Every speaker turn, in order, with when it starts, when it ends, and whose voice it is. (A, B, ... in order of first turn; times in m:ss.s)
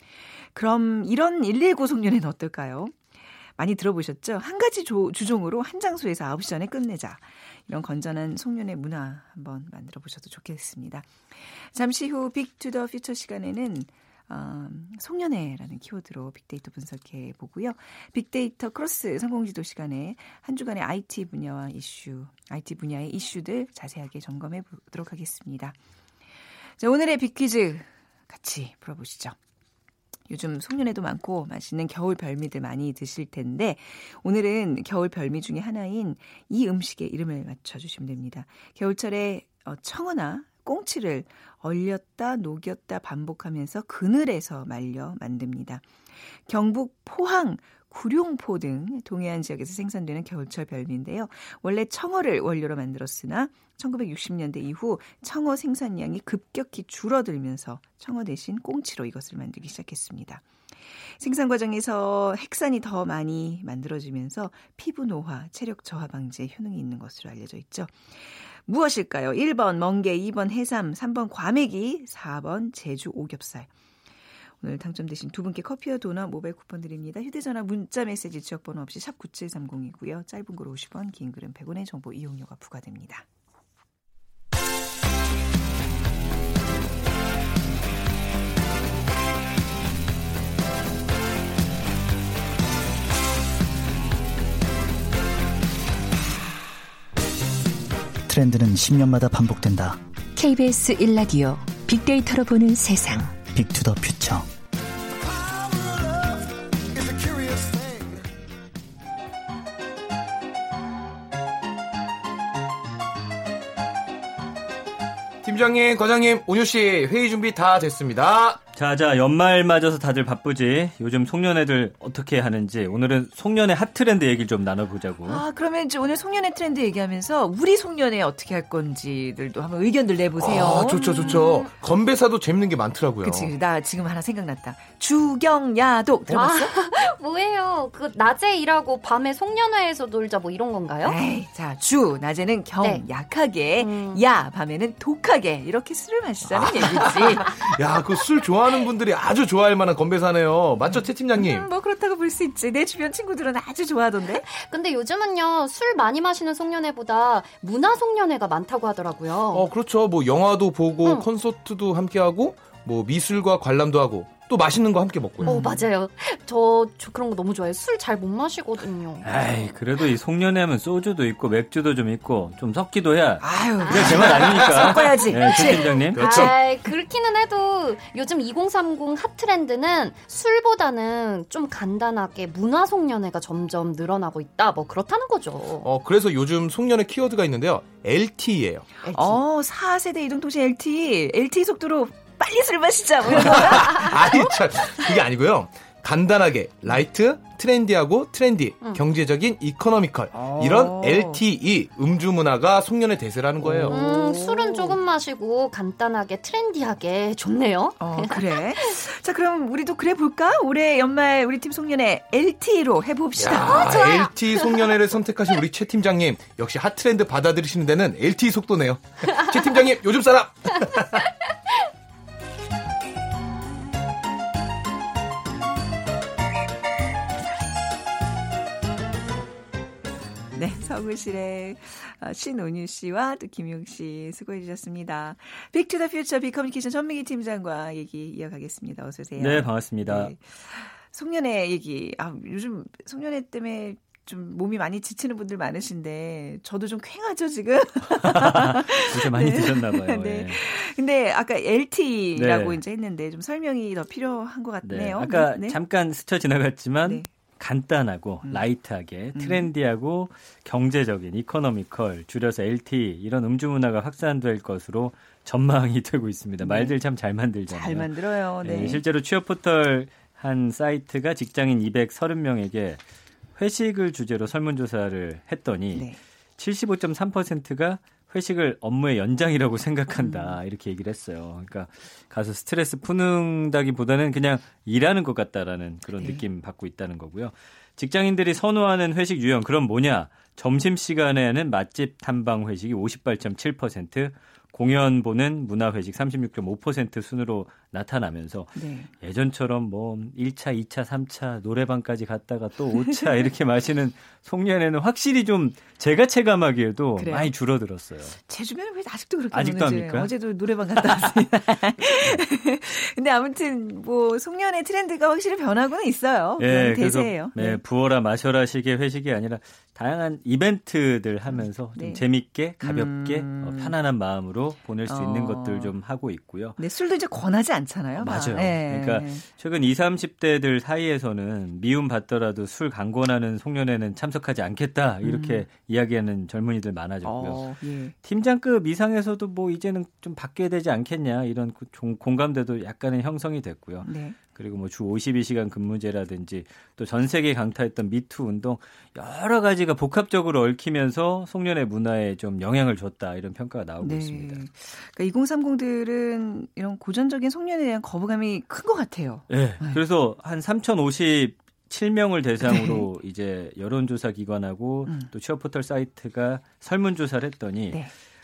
0:00.5-0:03.0 A
0:03.6-0:25.8 A
0:26.8-0:29.4 A
0:30.3-0:45.9 A
0:46.5-1:00.4 A
1:01.2-1:13.7 A
1:14.6-1:23.2 A
1:38.3-1:40.0 B
1:40.4-1:43.3 C
1:43.4-1:44.5 B
1:55.4-1:58.6 D
1:58.7-2:05.4 E
2:05.2-2:11.7 A
2:10.4-2:13.5 D
2:11.2-2:11.6 F
2:13.2-2:16.7 A
2:16.3-2:21.2 F
2:21.0-2:27.6 A
2:23.8-2:24.2 F
2:26.5-2:31.7 D
2:30.8-2:34.4 A
2:34.4-2:39.6 F
2:39.5-2:45.8 D
2:45.4-2:45.8 A
2:45.4-2:49.3 F
2:49.2-2:56.5 E
2:53.4-2:56.4 A
2:53.8-2:54.4 F
2:54.0-2:55.0 D
2:55.5-3:05.9 F
2:56.1-2:56.5 D
3:05.8-3:08.9 D
3:09.0-3:09.4 F
3:09.1-3:14.4 A
3:13.3-3:24.0 D
3:20.5-3:21.4 A
3:23.9-3:28.9 F
3:23.9-3:24.9 A
3:28.0-3:34.3 A
3:33.4-3:41.2 D
3:50.5-4:15.8 A
3:59.4-4:00.3 E
4:08.2-4:10.6 E
4:12.3-4:12.8 E
4:14.8-4:33.0 E
4:17.0-4:17.3 A
4:19.3-4:19.7 A
4:26.6-4:27.0 A
4:27.7-4:29.0 A
4:33.6-4:36.0 E
4:35.9-4:36.2 A
4:36.6-5:08.4 E
4:40.2-4:40.6 A
4:58.7-4:59.1 A
5:03.1-5:03.4 A
5:07.2-5:07.5 A
5:08.4-5:17.8 A
5:09.5-5:10.3 E
5:16.6-5:26.8 E
5:21.5-5:22.2 A
5:22.8-5:23.9 A
5:25.0-5:25.9 A
5:26.8-5:29.4 A
5:28.2-5:37.7 E
5:35.2-5:35.6 A
5:37.2-5:38.1 A
5:38.2-5:54.6 E
5:44.0-5:44.4 A
5:54.0-6:00.0 A
5:59.5-6:08.0 E
6:02.6-6:03.1 A